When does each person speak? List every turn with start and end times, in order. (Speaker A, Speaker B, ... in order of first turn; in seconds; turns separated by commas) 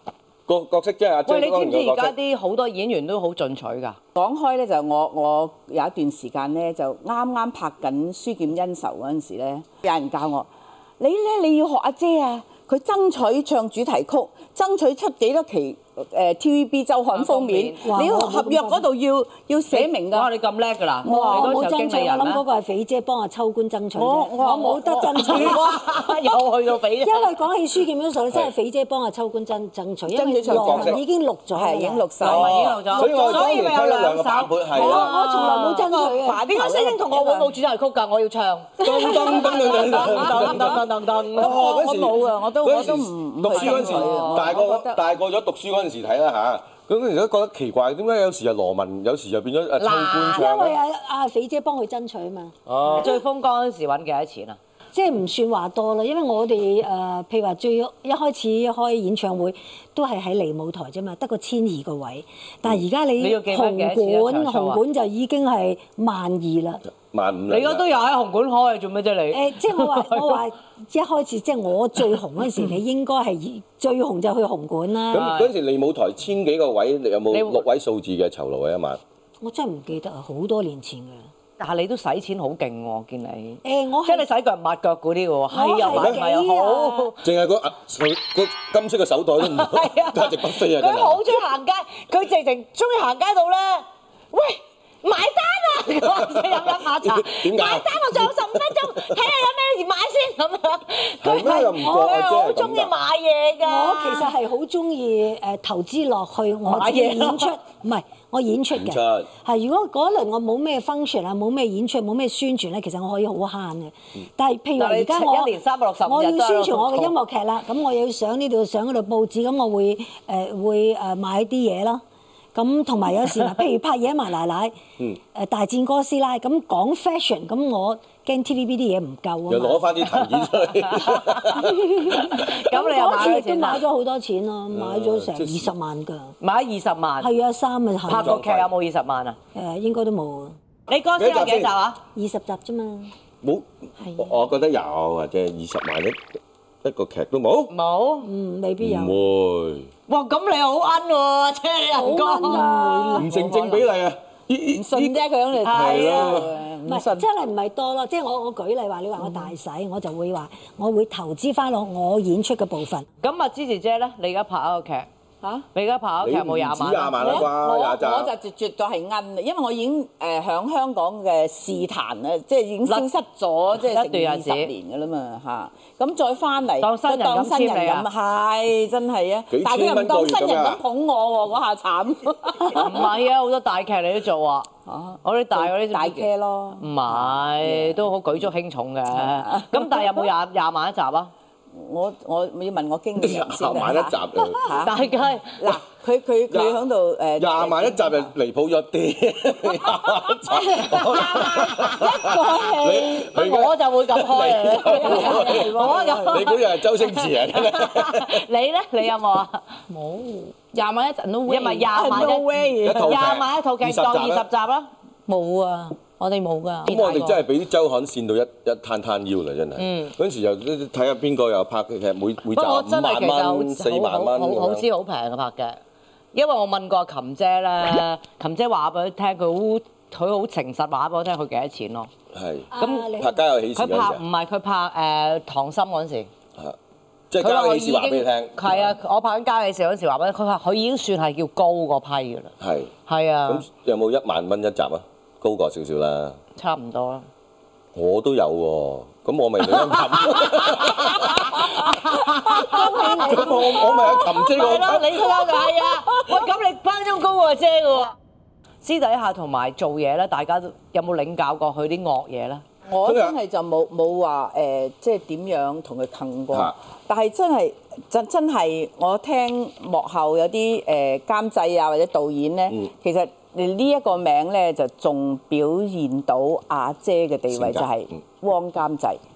Speaker A: 0.5-2.1, Speaker B: 1.3-4.0, Speaker C: 4.2-10.5, Speaker C: 11.0-20.3, Speaker B: 17.1-17.9, Speaker D: 17.8-18.9, Speaker B: 19.7-22.4, Speaker C: 21.0-21.6, Speaker D: 21.1-25.8, Speaker C: 24.0-25.7, Speaker B: 25.2-27.4, Speaker D: 27.0-32.2, Speaker C: 30.1-31.0, Speaker A: 30.5-31.0, Speaker C: 31.5-33.5, Speaker B: 32.2-35.9, Speaker A: 32.2-35.2, Speaker D: 34.7-36.5, Speaker C: 35.5-37.5, Speaker B: 36.5-41.6, Speaker A: 38.8-50.8, Speaker D: 38.8-39.4, Speaker C: 39.2-40.7, Speaker C: 41.4-45.0, Speaker B: 43.5-44.5, Speaker B: 49.8-50.5, Speaker D: 50.3-52.5, Speaker A: 52.7-53.1, Speaker B: 52.9-54.6, Speaker D: 54.9-66.8, Speaker B: 63.2-64.8, Speaker A: 67.0-67.9, Speaker B: 67.5-70.4, Speaker D: 69.3-75.3, Speaker A: 75.1-79.0, Speaker B: 75.1-75.5, Speaker B: 77.3-77.7, Speaker D: 79.4-81.3, Speaker B: 81.6-87.2, Speaker D: 83.6-84.3, Speaker D: 85.5-87.1, Speaker A: 85.8-86.2, Speaker A: 87.2-91.4, Speaker B: 89.4-104.3, Speaker A: 96.0-99.1, Speaker A: 101.2-102.9, Speaker D: 101.4-102.3, Speaker D: 103.6-122.0, Speaker B: 106.7-107.6, Speaker A: 108.7-109.3, Speaker B: 114.8-117.2, Speaker D: 122.5-124.8, Speaker D: 125.3-129.9, Speaker A: 129.5-132.4, Speaker B: 130.8-131.7, Speaker D: 131.6-136.3, Speaker B: 132.2-133.8, Speaker A: 134.7-135.7, Speaker B: 136.4-137.3, Speaker D: 137.2-138.4, Speaker B: 138.1-139.4, Speaker A: 138.2-138.7, Speaker D: 139.6-140.6, Speaker B: 140.9-142.0, Speaker A: 141.2-141.7, Speaker D: 142.2-143.1, Speaker A: 143.4-146.2, Speaker A: 146.8-147.7, Speaker B: 147.7-148.3, Speaker D: 148.2-149.2, Speaker A: 148.8-149.9, Speaker B: 150.1-153.2, Speaker D: 151.9-153.3, Speaker C: 152.8-153.8, Speaker A: 153.2-156.5, Speaker C: 154.7-157.3, Speaker B: 155.6-156.5, Speaker D: 156.8-163.1, Speaker B: 163.2-165.1, Speaker B: 165.7-167.5, Speaker A: 166.2-168.3, Speaker C: 167.2-183.1, Speaker B: 173.8-174.7, Speaker B: 176.8-178.1, Speaker A: 179.5-180.8, Speaker B: 182.7-184.7, Speaker C: 184.9-188.1, Speaker B: 185.2-186.3, Speaker B: 186.8-191.3, Speaker C: 189.2-190.3, Speaker C: 191.7-198.3, Speaker A: 193.2-194.7, Speaker B: 194.8-195.8, Speaker A: 196.5-196.8, Speaker A: 197.4-208.4, Speaker B: 200.9-202.1, Speaker C: 202.0-203.3, Speaker B: 203.2-209.7, Speaker C: 204.8-206.5, Speaker E: 209.9-212.3, Speaker B: 211.5-214.9, Speaker C: 211.9-213.3, Speaker A: 212.8-214.5, Speaker E: 215.3-217.4, Speaker A: 216.9-224.9, Speaker B: 219.8-220.1, Speaker B: 222.5-225.8, Speaker B: 226.3-232.1, Speaker A: 232.3-234.2, Speaker D: 232.7-233.4, Speaker B: 232.8-233.1, Speaker B: 233.8-236.3, Speaker A: 237.3-239.0, Speaker B: 237.4-242.5, Speaker A: 242.6-242.9, Speaker B: 243.1-243.6, Speaker A: 243.5-246.4, Speaker B: 246.6-247.3, Speaker A: 247.9-251.9, Speaker B: 250.2-258.1, Speaker D: 252.5-254.2, Speaker A: 252.8-255.4, Speaker B: 258.8-262.6, Speaker C: 262.9-279.2, Speaker A: 263.0-263.4, Speaker A: 277.5-278.2